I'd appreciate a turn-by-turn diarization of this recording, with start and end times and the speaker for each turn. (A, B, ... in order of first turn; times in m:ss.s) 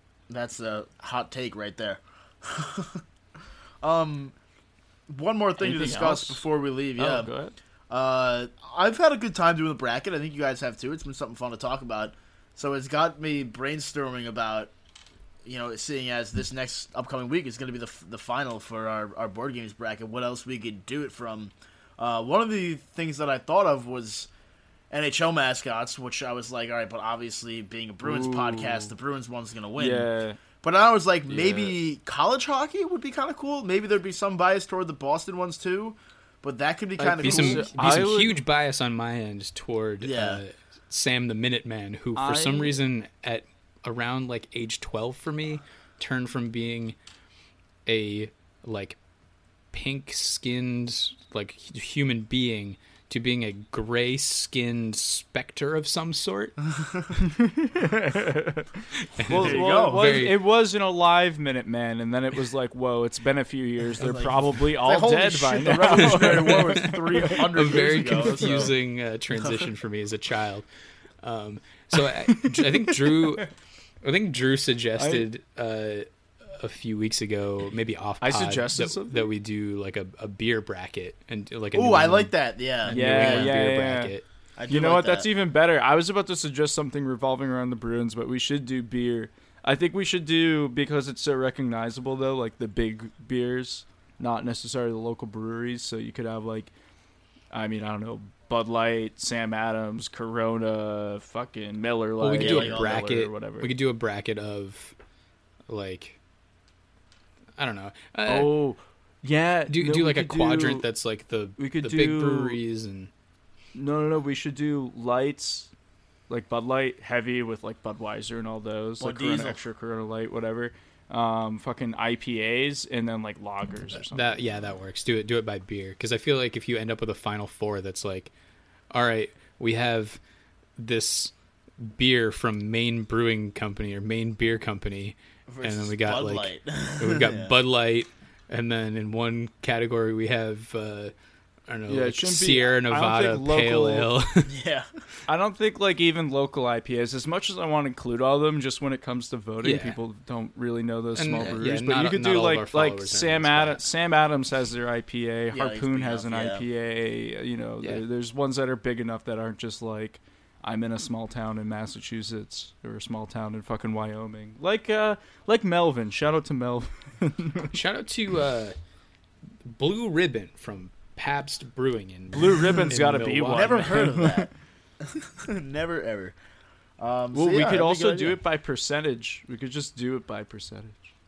0:00.3-0:03.0 A
0:03.8-0:04.3 A
0:05.1-0:07.3 A
0:05.6-0:06.4 B
0:07.0-0:07.5 B
0:07.9-0:14.7 A
0:15.4-0:24.3 A
0:24.9-0:30.1 A
0:28.0-0:28.9 B
0:29.8-0:30.4 B
0:30.6-0:37.7 A
0:31.3-0:31.7 B
0:37.0-0:38.4 B
0:37.2-0:47.0 C
0:40.0-0:40.4 A
0:42.1-0:42.8 B
0:47.8-0:49.0 C
0:49.7-0:56.5 C
0:56.7-0:57.1 A
0:57.2-1:07.4 B
0:59.2-1:00.4 C
0:59.3-1:00.2 A
1:04.0-1:08.7 A
1:07.4-1:10.6 C
1:11.2-1:13.5 C
1:12.0-1:13.4 B
1:14.0-1:22.3 C
1:15.0-1:15.2 B
1:18.2-1:19.2 B
1:21.7-1:23.6 A
1:22.8-1:24.2 C
1:22.9-1:24.1 B
1:24.6-1:25.3 A
1:24.7-1:36.7 B
1:37.5-1:43.7 B
1:42.2-1:45.0 C
1:42.3-1:42.9 A
1:45.7-1:46.2 C
1:47.6-1:48.5 C
1:48.2-1:50.8 B
1:49.7-1:53.1 C
1:51.6-1:52.6 B
1:53.7-1:55.7 B
1:56.3-2:04.4 B
1:59.0-1:59.6 A
2:04.1-2:08.3 C
2:08.9-2:10.2 C
2:10.8-2:21.1 C
2:15.5-2:17.5 A
2:21.7-2:24.5 C
2:21.9-2:24.1 B
2:24.5-2:24.9 A
2:25.3-2:47.7 B
2:29.6-2:30.0 C
2:31.2-2:33.8 C
2:35.5-2:36.6 A
2:47.7-2:48.8 C
2:49.6-2:54.0 C
2:52.3-2:54.5 B
2:53.5-2:54.5 A
2:55.0-2:56.3 A
2:57.0-2:58.4 A
2:57.3-3:01.0 B